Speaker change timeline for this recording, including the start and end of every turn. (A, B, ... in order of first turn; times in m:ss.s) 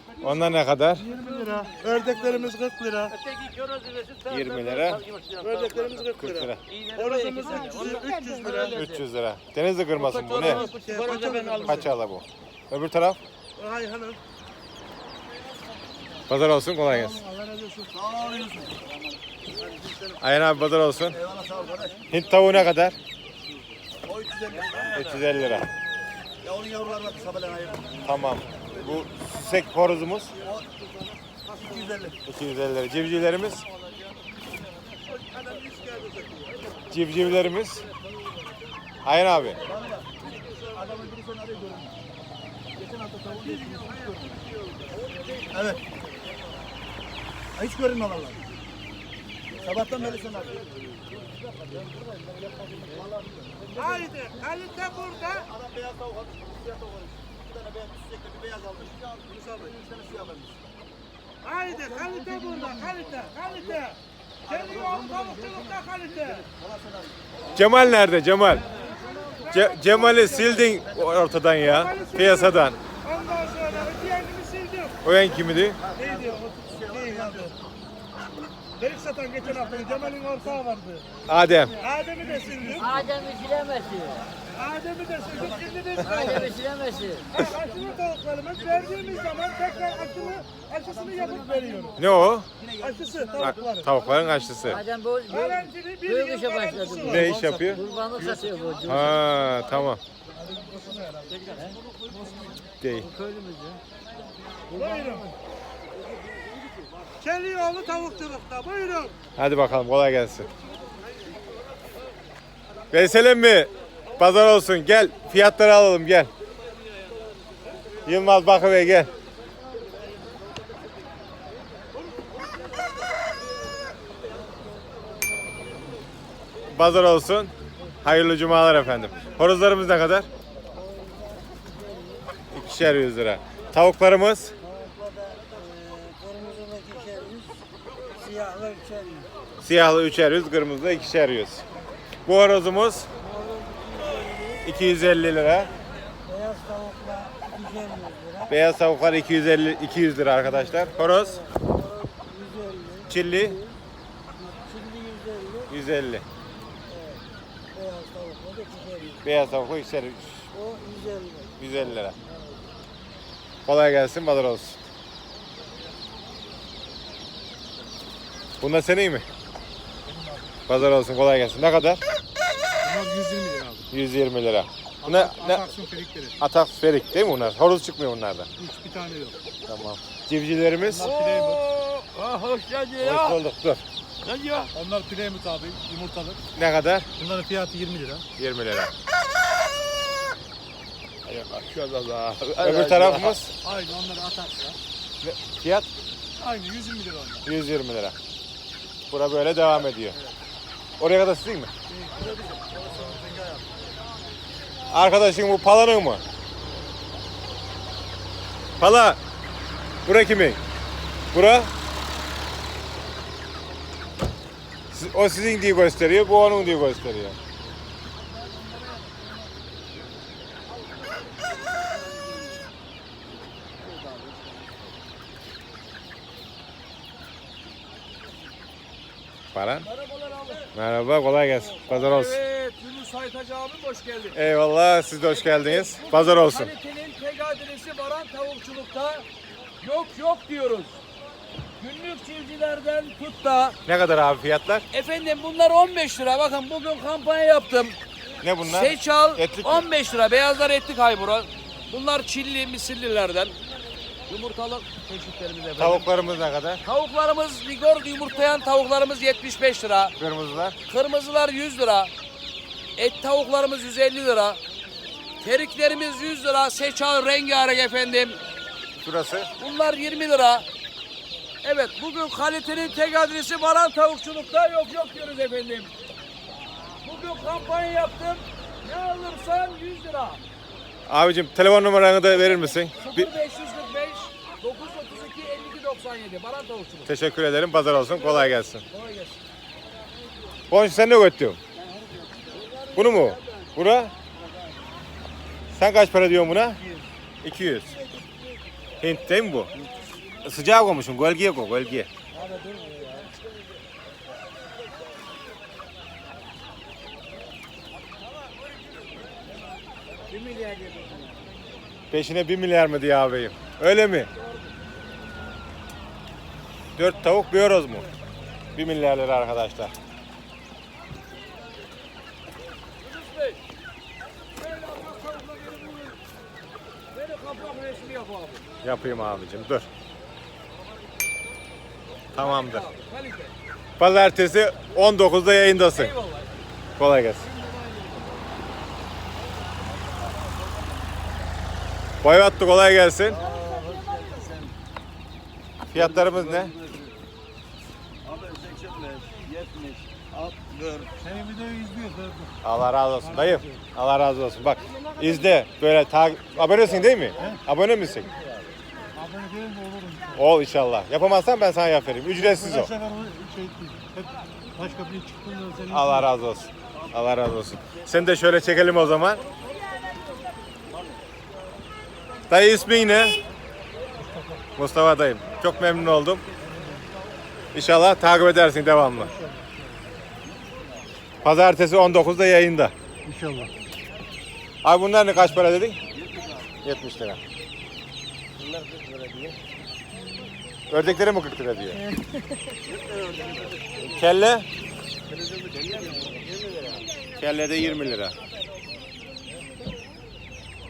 0:00.2-0:01.1 A
0:01.0-0:03.1 B
0:03.2-0:05.9 C
0:04.2-0:05.0 A
0:05.4-0:08.8 B
0:06.1-0:06.6 A
0:06.7-0:09.0 C
0:08.6-0:10.7 A
0:09.9-0:11.9 C
0:10.4-0:11.8 B
0:11.6-0:13.2 A
0:13.6-0:14.2 B
0:16.3-0:17.2 A
0:17.3-0:17.8 B
0:17.8-0:18.9 D
0:20.2-0:21.2 A
0:21.1-0:22.0 D
0:22.1-0:23.0 A
0:24.0-0:25.0 D
0:24.9-0:25.7 A
0:26.4-0:28.0 D
0:28.0-0:30.3 A
0:31.4-0:32.2 D
0:32.2-0:33.7 A
0:35.3-0:36.4 B
0:36.9-0:37.8 A
0:39.0-0:39.6 A
0:39.6-0:41.9 D
0:42.8-0:44.3 D
0:43.7-0:44.0 B
0:45.5-0:45.8 D
0:47.6-0:48.4 D
0:49.6-0:51.0 D
0:52.8-0:54.0 D
0:53.8-0:55.5 B
0:55.0-1:00.6 D
1:01.4-1:06.4 B
1:04.5-1:07.4 D
1:07.5-1:08.7 A
1:09.4-1:09.8 B
1:09.5-1:12.8 A
1:10.0-1:11.0 D
1:11.6-1:15.0 B
1:13.3-1:14.0 D
1:15.0-1:15.8 A
1:15.8-1:17.5 D
1:16.0-1:17.5 B
1:18.8-1:21.0 B
1:19.4-1:20.4 D
1:21.3-1:21.8 A
1:21.8-1:22.9 B
1:22.6-1:24.2 E
1:24.6-1:26.4 B
1:25.2-1:28.0 D
1:26.0-1:27.3 E
1:27.3-1:32.0 B
1:28.6-1:33.6 D
1:32.0-1:32.5 A
1:32.8-1:33.9 B
1:33.4-1:34.8 A
1:34.6-1:39.2 E
1:35.3-1:37.2 B
1:37.0-1:37.8 A
1:38.1-1:39.8 D
1:38.8-1:40.0 A
1:40.5-1:41.7 D
1:42.8-1:43.1 A
1:42.9-1:43.8 E
1:44.7-1:45.2 B
1:44.7-1:45.3 E
1:47.2-1:49.1 B
1:49.4-1:50.5 A
1:52.9-1:56.3 A
1:58.0-1:59.1 A
2:06.7-2:10.3 A
2:10.8-2:12.2 E
2:12.5-2:14.6 A
2:14.6-2:17.6 E
2:18.1-2:19.3 E
2:19.6-2:21.6 A
2:22.2-2:23.1 A
2:23.2-2:24.6 E
2:24.6-2:25.7 A
2:26.2-2:28.5 E
2:28.4-2:31.5 A
2:31.4-2:33.1 E
2:33.1-2:33.6 A
2:34.4-2:35.7 E
2:35.7-2:36.2 A
2:37.8-2:39.2 E
2:39.2-2:40.5 A
2:40.6-2:41.5 E
2:41.6-2:42.2 A
2:43.6-2:44.8 A
2:48.6-2:49.2 A
2:50.7-2:52.0 A
2:52.8-2:53.8 B
2:53.9-2:55.7 A
2:55.2-2:56.3 B
2:56.4-2:58.5 A
2:58.6-2:59.3 B
2:59.6-3:01.1 A
3:00.9-3:03.4 C
3:03.0-3:03.8 A
3:04.2-3:04.9 C
3:05.0-3:05.8 B
3:06.5-3:07.1 A
3:07.2-3:08.2 B
3:08.4-3:08.9 A
3:11.3-3:14.7 C
3:12.5-3:13.5 A
3:15.2-3:15.9 A
3:16.4-3:17.4 C
3:17.4-3:18.2 A
3:19.1-3:20.2 A
3:21.0-3:21.7 A
3:22.1-3:23.6 D
3:24.9-3:26.2 A
3:28.8-3:29.2 A
3:30.0-3:30.6 A
3:31.3-3:31.7 A
3:34.9-3:37.4 A
3:49.5-3:49.9 A
3:49.9-3:50.7 C
3:50.7-3:52.4 A
3:51.8-3:54.4 C
3:54.3-3:56.7 A
3:55.3-3:59.2 C
3:59.8-4:01.0 C
4:01.8-4:03.8 C
4:03.8-4:04.8 A
4:04.9-4:08.0 C
4:08.4-4:09.8 A
4:08.6-4:13.6 C
4:14.3-4:16.1 C
4:15.8-4:16.8 A
4:16.8-4:20.1 C
4:20.2-4:20.8 A
4:20.8-4:22.1 C
4:23.0-4:24.6 C
4:25.4-4:28.4 C
4:29.0-4:29.5 A
4:29.6-4:30.6 C
4:31.6-4:35.9 C
4:37.0-4:40.4 C
4:41.1-4:43.3 A
4:43.0-4:47.1 C
4:47.0-4:48.8 A
4:48.1-4:49.4 C
4:50.7-4:51.6 A
4:52.9-4:54.1 A
4:55.7-4:56.8 A
4:57.4-4:58.0 A
4:59.0-4:59.7 A
5:00.4-5:02.1 A
5:12.1-5:14.3 A
5:17.0-5:18.1 A
5:18.7-5:19.9 A
5:23.0-5:23.6 C
5:24.5-5:26.2 C
5:27.1-5:28.7 C
5:28.8-5:29.9 A
5:32.3-5:32.9 A
5:32.3-5:33.5 C
5:34.0-5:36.2 A
5:35.9-5:36.6 C
5:37.0-5:37.5 A
5:42.2-5:43.4 A
5:43.3-5:44.7 D
5:43.4-5:44.4 C
5:45.9-5:46.8 A
5:45.9-5:47.1 D
5:48.3-5:51.1 D
5:51.6-5:52.1 B
5:52.6-5:58.3 A
5:59.3-6:00.2 B
6:00.3-6:02.9 A
6:03.0-6:04.1 B
6:04.8-6:05.8 B
6:05.8-6:09.4 A
6:12.5-6:13.4 A
6:14.8-6:16.4 A
6:17.7-6:19.3 A
6:21.4-6:22.9 A
6:23.3-6:23.7 B
6:24.8-6:26.0 A
6:26.8-6:27.4 A
6:30.9-6:32.0 A
6:32.9-6:33.8 D
6:34.0-6:34.7 A
6:35.4-6:37.0 D
6:37.3-6:38.4 A